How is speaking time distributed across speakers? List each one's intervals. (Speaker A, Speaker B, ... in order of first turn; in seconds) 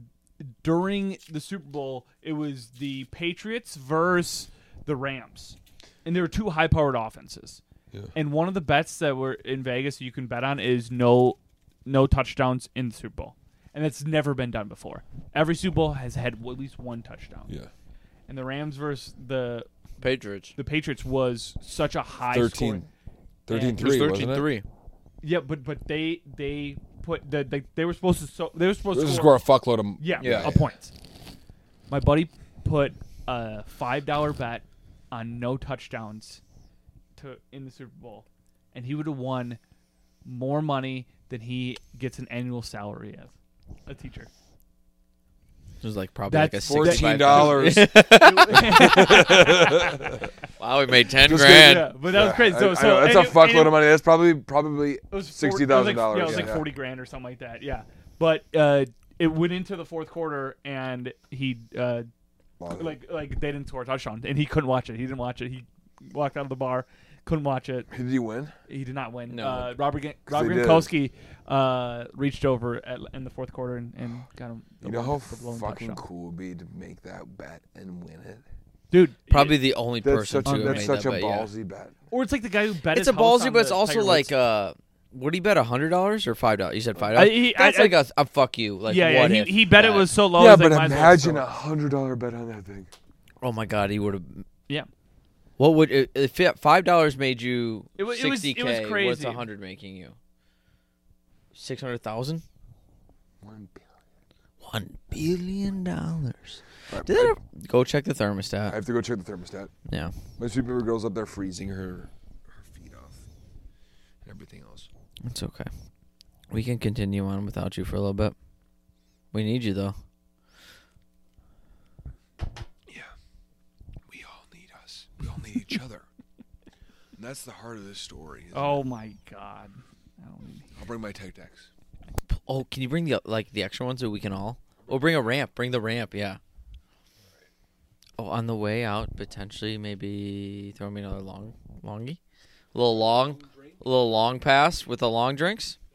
Speaker A: 0.4-7.6, 8.1-17.5, 18.3-19.7, 20.6-22.9, 23.5-23.8, 25.2-29.4, 30.0-30.9, 31.9-36.4, 37.2-39.6, 40.2-43.3, 43.9-44.3, 46.3-50.2, 51.4-53.9, 55.1-62.1, 62.7-67.9, 68.7-76.0, 78.9-79.7, 80.5-81.0, 82.1-84.3, 87.1-88.0, 88.9-91.4, 98.0-99.5, 128.5-130.8
Speaker B: 20.0-20.6, 23.8-24.6, 30.2-30.6, 45.8-49.3, 50.6-51.9, 56.2-56.6, 69.3-69.8, 79.3-81.5, 82.9-90.1, 93.4-94.5, 95.6-100.2, 101.5-102.4, 104.6-108.8, 109.9-110.2, 115.2-115.7, 116.5-118.3, 119.3-120.0, 132.3-136.4, 138.2-142.2, 142.7-145.8
Speaker C: 22.3-22.9, 23.5-24.5, 28.9-30.7, 46.6-50.2, 51.2-56.7, 62.6-63.0, 67.9-68.5, 70.3-70.9, 74.8-78.4, 80.0-82.0, 90.3-92.9, 103.4-103.9, 106.9-107.4, 108.7-109.7, 110.4-113.2, 114.2-114.9, 122.9-123.1, 124.1-126.1, 127.2-128.8, 130.8-131.7, 142.8-143.8